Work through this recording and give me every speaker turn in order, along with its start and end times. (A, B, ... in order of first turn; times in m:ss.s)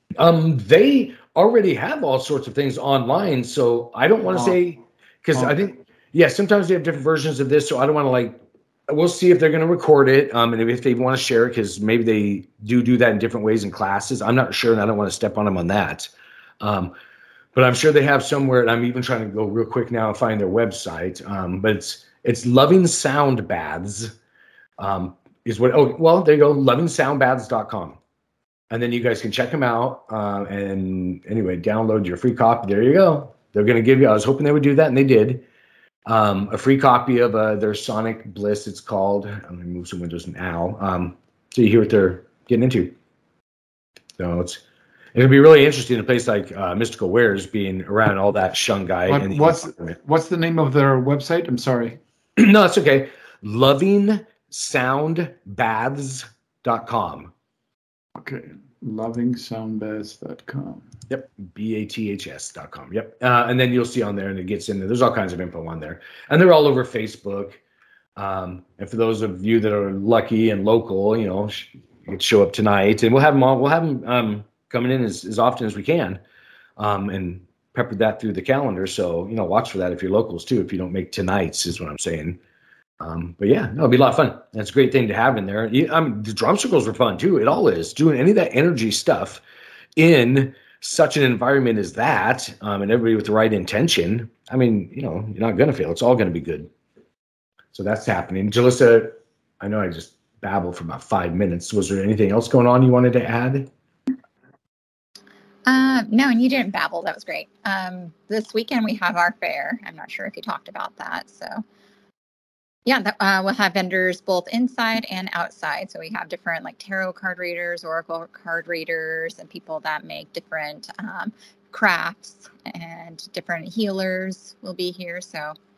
0:00.2-0:08.4 A
0:08.9-0:16.9 A
0:17.5-0:24.1 A
0:24.8-0:28.0 A
0:28.7-0:35.4 A
0:36.0-0:42.9 A
0:44.2-0:44.6 A
0:45.1-0:49.9 A
0:49.1-0:52.0 B
0:52.4-0:57.3 A
0:58.2-1:00.9 B
1:01.1-1:07.6 A
1:08.2-1:16.2 A
1:16.8-1:22.4 A
1:23.0-1:29.4 A
1:30.0-1:36.7 A
1:37.7-1:43.7 A
1:45.6-1:51.6 C
1:52.8-2:05.5 C